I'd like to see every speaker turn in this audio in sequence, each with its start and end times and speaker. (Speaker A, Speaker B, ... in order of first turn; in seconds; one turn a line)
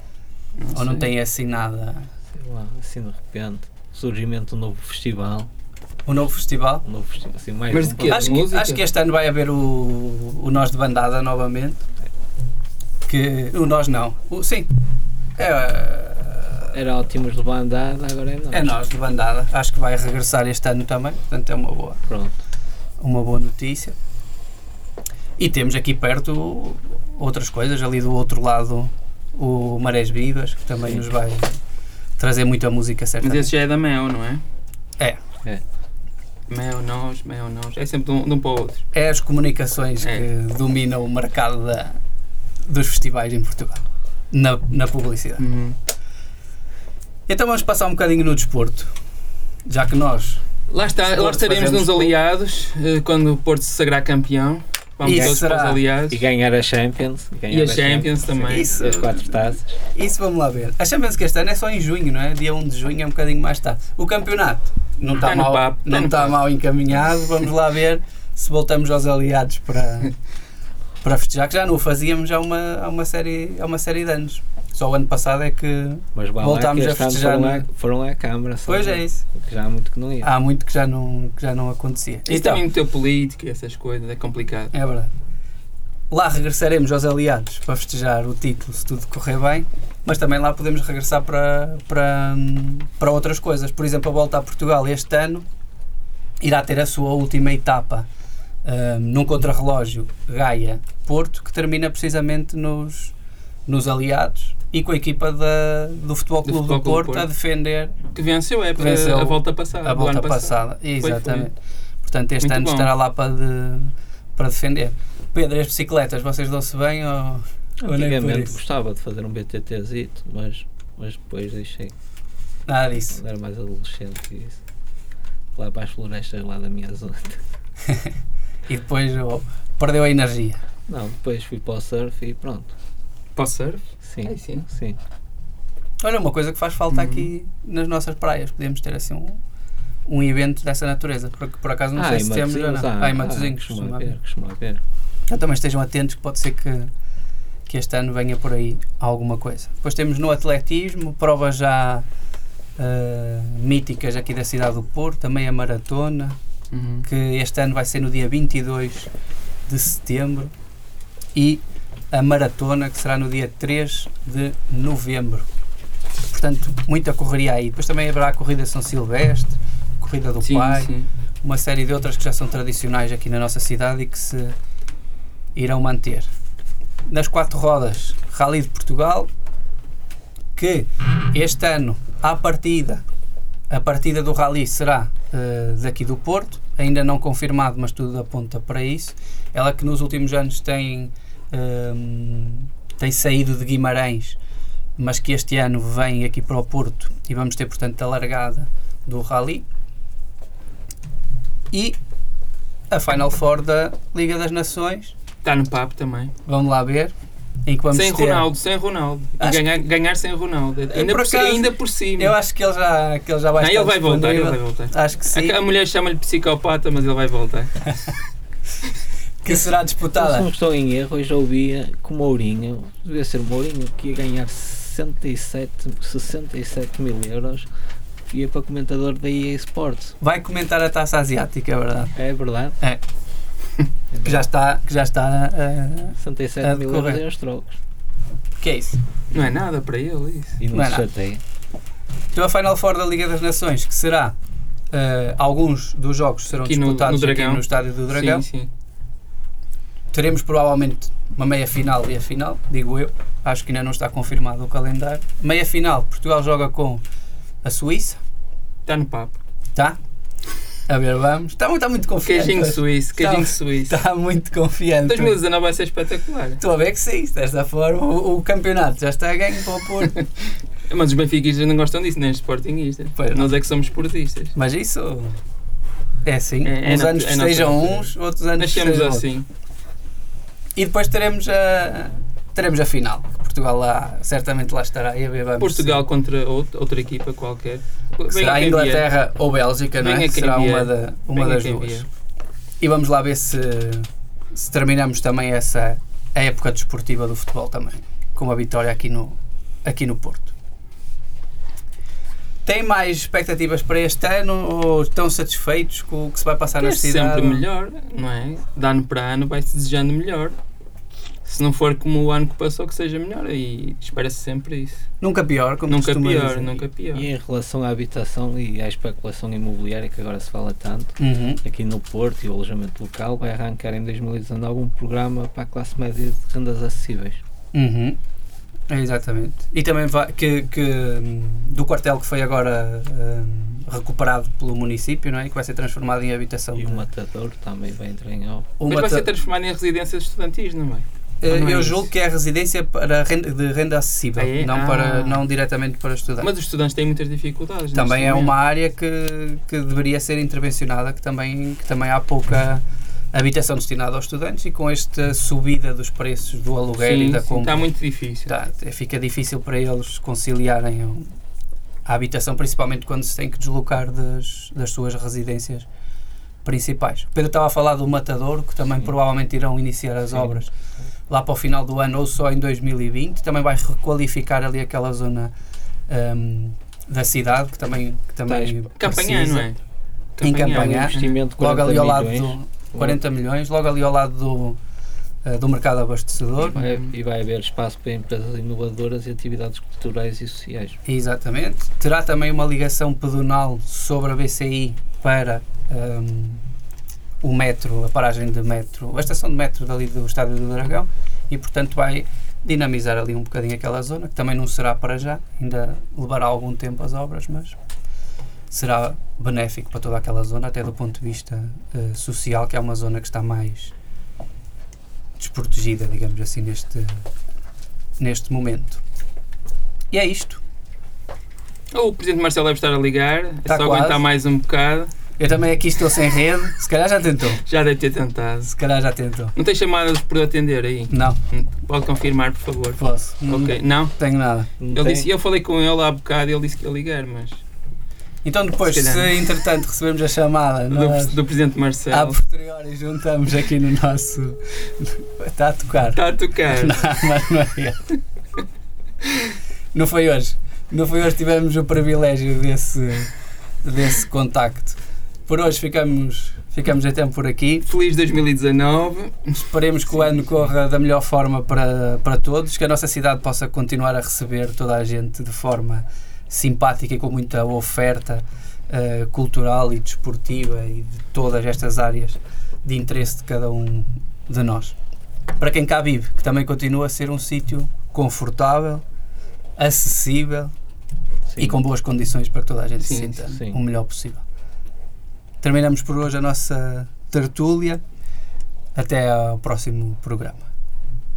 Speaker A: 0.6-1.1
Speaker B: 0.7-2.1
Speaker C: 2.4-5.5
Speaker B: 6.0-6.9
Speaker C: 6.8-8.4
Speaker A: 7.7-8.8
Speaker B: 8.0-11.8
Speaker B: 13.1-14.7
Speaker B: 15.4-16.8
Speaker C: 16.7-18.7
Speaker B: 18.5-22.0
Speaker C: 22.1-22.4
Speaker B: 23.0-24.0
Speaker B: 25.4-31.6
Speaker B: 32.2-33.5
Speaker A: 33.2-34.4
Speaker A: 36.5-38.8
Speaker B: 38.9-42.0
Speaker A: 40.0-40.3
Speaker B: 42.6-45.4
Speaker A: 45.4-45.8
Speaker B: 47.3-48.9
Speaker B: 49.7-50.4
Speaker A: 50.7-56.2
Speaker B: 51.0-52.2
Speaker B: 55.0-55.8
Speaker C: 55.0-55.4
Speaker C: 56.1-59.8
Speaker A: 57.5-58.8
Speaker B: 58.5-70.1
Speaker A: 65.2-66.4
Speaker B: 71.0-77.7
Speaker C: 76.2-80.3
Speaker B: 78.6-79.3
Speaker B: 80.2-82.6
Speaker A: 82.3-84.7
Speaker B: 84.7-85.1
Speaker B: 86.1-95.5
Speaker B: 96.4-98.1
Speaker B: 98.6-103.1
Speaker B: 103.7-108.0
Speaker A: 106.5-107.3
Speaker A: 108.1-111.5
Speaker B: 108.8-118.6
Speaker A: 112.4-112.9
Speaker C: 117.8-121.9
Speaker B: 122.7-123.2
Speaker C: 123.1-124.6
Speaker C: 125.5-127.4
Speaker B: 128.7-130.6
Speaker C: 130.9-132.8
Speaker A: 133.3-134.7
Speaker C: 134.0-135.0
Speaker B: 136.0-139.4
Speaker A: 136.9-137.3
Speaker B: 140.1-144.2
Speaker C: 141.9-144.8
Speaker B: 145.3-146.9
Speaker B: 147.7-152.1
Speaker B: 152.8-156.4
Speaker A: 156.7-157.1
Speaker B: 157.0-159.1
Speaker B: 159.7-160.5
Speaker B: 161.3-165.5
Speaker B: 166.3-174.6
Speaker A: 170.4-171.1
Speaker B: 175.6-176.3
Speaker B: 177.1-179.3
Speaker B: 180.6-183.0
Speaker B: 183.7-194.4
Speaker B: 195.0-199.7
Speaker B: 201.7-202.0
Speaker B: 202.9-205.1
Speaker A: 205.4-206.3
Speaker B: 206.4-207.1
Speaker B: 207.7-208.5
Speaker A: 207.9-212.3
Speaker B: 209.4-209.7
Speaker B: 210.9-215.6
Speaker A: 213.6-217.7
Speaker B: 219.4-220.5
Speaker C: 219.5-227.7
Speaker C: 228.3-230.2
Speaker B: 230.2-232.2
Speaker C: 232.2-232.8
Speaker C: 234.1-234.5
Speaker B: 234.2-237.2
Speaker C: 236.2-237.8
Speaker B: 238.6-239.0
Speaker A: 239.3-240.6
Speaker C: 240.6-241.4
Speaker B: 240.7-241.1
Speaker B: 242.3-244.3
Speaker B: 244.9-248.5
Speaker A: 246.5-248.7
Speaker B: 250.1-257.0
Speaker B: 257.6-258.2
Speaker A: 258.9-259.4
Speaker B: 260.9-265.4
Speaker A: 262.2-264.0
Speaker A: 265.1-266.6
Speaker B: 266.6-270.2
Speaker A: 270.9-274.5
Speaker B: 273.2-273.6
Speaker B: 274.6-275.3
Speaker B: 276.2-279.3
Speaker A: 276.6-279.5
Speaker B: 280.8-286.1
Speaker A: 285.6-289.1
Speaker B: 288.3-292.1
Speaker A: 290.0-292.1
Speaker B: 292.8-300.5
Speaker B: 302.6-307.7
Speaker A: 306.8-310.6
Speaker A: 311.4-315.0
Speaker B: 315.2-316.8
Speaker A: 315.9-317.3
Speaker C: 317.1-327.4
Speaker B: 321.2-321.6
Speaker B: 327.7-328.2
Speaker B: 328.9-337.1
Speaker C: 336.7-338.8
Speaker B: 338.8-339.3
Speaker A: 338.9-342.1
Speaker B: 341.4-346.5
Speaker A: 344.4-345.5
Speaker A: 346.4-348.5
Speaker B: 347.9-357.9
Speaker A: 357.0-358.5
Speaker B: 358.5-361.3
Speaker B: 362.1-365.9
Speaker B: 366.6-370.7
Speaker B: 371.3-375.5
Speaker B: 376.1-379.7
Speaker C: 378.4-378.8
Speaker A: 379.0-379.8
Speaker A: 380.4-381.4
Speaker B: 380.4-384.8
Speaker C: 380.5-383.2
Speaker B: 385.4-386.8
Speaker C: 386.6-391.0
Speaker A: 386.7-387.1
Speaker B: 391.1-396.6
Speaker B: 397.4-407.8
Speaker B: 408.7-413.9
Speaker B: 415.4-417.1
Speaker B: 418.2-419.0
Speaker B: 420.1-420.6
Speaker A: 421.9-425.1
Speaker B: 423.7-424.2
Speaker B: 425.4-427.6
Speaker A: 427.7-428.7
Speaker B: 428.6-429.5
Speaker A: 429.6-434.1
Speaker B: 431.1-431.4
Speaker B: 433.0-434.7
Speaker C: 434.8-435.3
Speaker A: 434.9-437.6
Speaker B: 438.4-441.4
Speaker A: 438.8-439.3
Speaker A: 440.9-442.4
Speaker B: 442.1-448.1
Speaker A: 446.1-447.0
Speaker B: 449.9-453.3
Speaker B: 453.8-457.9
Speaker A: 457.9-459.5
Speaker B: 459.5-475.0
Speaker A: 460.2-460.7
Speaker B: 475.6-479.0
Speaker B: 479.8-480.7
Speaker C: 481.5-481.8
Speaker B: 481.6-484.4
Speaker A: 483.0-483.4
Speaker C: 483.4-483.8
Speaker B: 485.6-488.0
Speaker B: 488.9-490.7